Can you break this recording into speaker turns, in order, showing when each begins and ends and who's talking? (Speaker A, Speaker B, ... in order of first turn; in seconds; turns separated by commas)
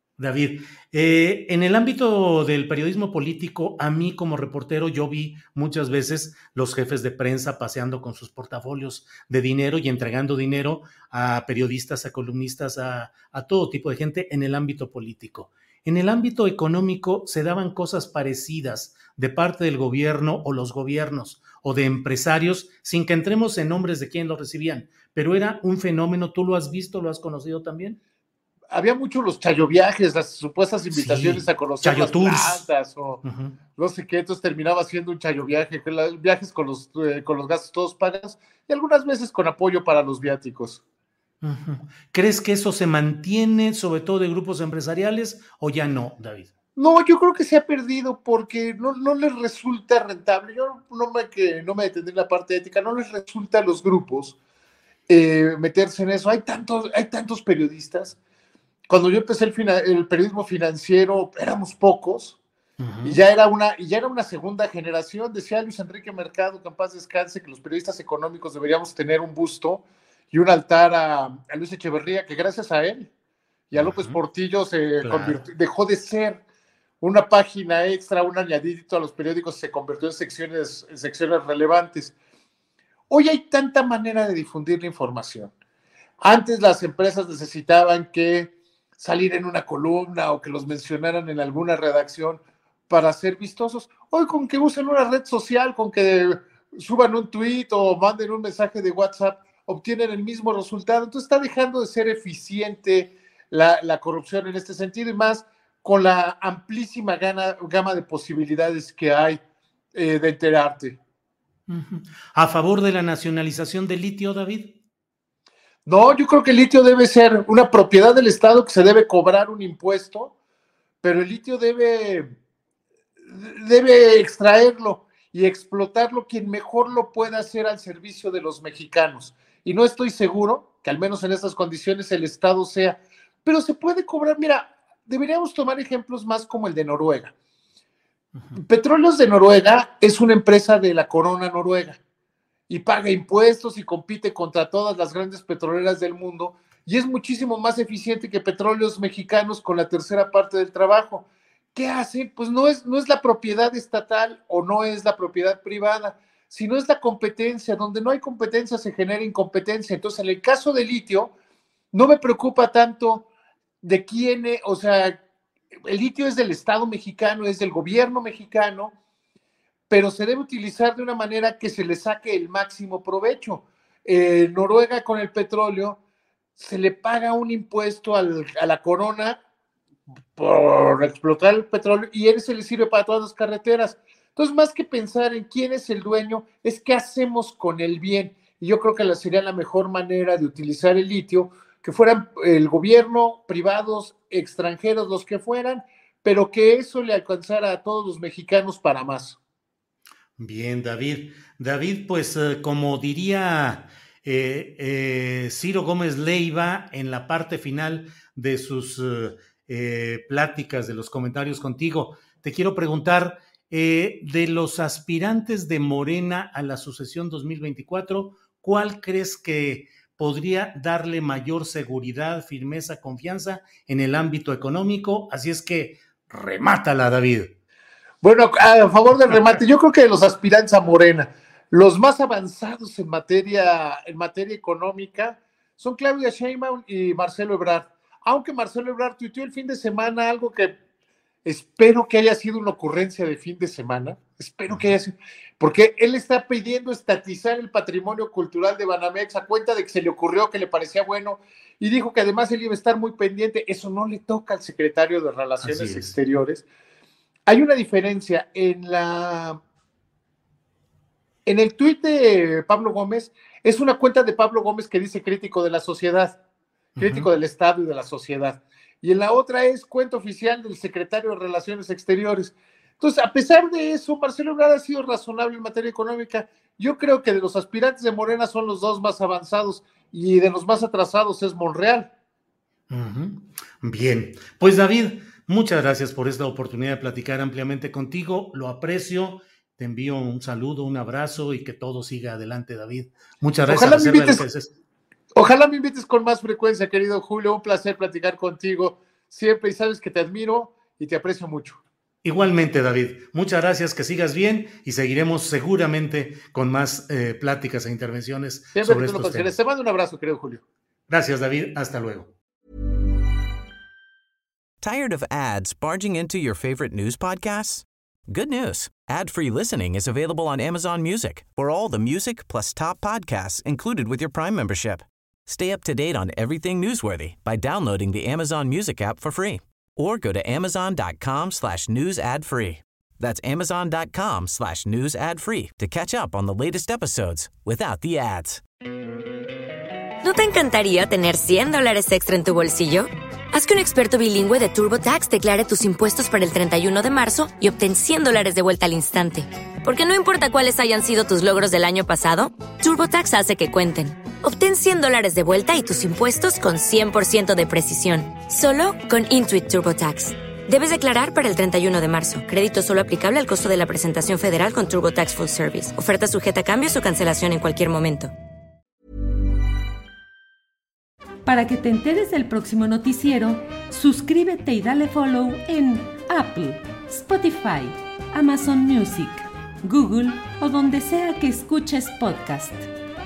Speaker A: 0.2-28.0, Speaker B: 28.7-33.2, Speaker A: 30.9-32.7, Speaker A: 33.2-33.6, Speaker B: 33.8-40.8, Speaker A: 41.4-46.5, Speaker B: 46.8-54.4, Speaker B: 55.1-58.2, Speaker B: 58.9-62.4, Speaker A: 62.8-63.2, Speaker B: 63.0-73.1, Speaker B: 73.7-76.4, Speaker A: 73.7-74.2, Speaker A: 75.0-75.4, Speaker B: 77.0-82.1, Speaker B: 83.1-85.5, Speaker B: 86.2-109.4, Speaker B: 109.9-111.0, Speaker A: 111.7-114.8, Speaker B: 115.9-120.3, Speaker B: 121.0-122.3, Speaker B: 123.3-137.3, Speaker B: 138.6-142.0, Speaker B: 142.7-161.3, Speaker B: 161.9-163.2, Speaker B: 163.8-165.2, Speaker B: 165.9-168.9, Speaker B: 169.9-176.0, Speaker B: 176.6-179.4, Speaker B: 180.4-199.4, Speaker A: 200.4-227.5, Speaker B: 228.2-240.7, Speaker B: 241.4-256.6, Speaker A: 255.6-256.1, Speaker B: 257.5-259.6, Speaker B: 261.4-266.4, Speaker A: 267.0-267.3, Speaker B: 267.0-282.1, Speaker A: 282.9-294.7, Speaker B: 293.7-294.4, Speaker B: 295.4-301.8, Speaker A: 302.2-309.6, Speaker B: 308.7-310.6, Speaker A: 311.1-312.3, Speaker C: 314.8-338.6, Speaker D: 340.2-368.3, Speaker E: 371.4-382.9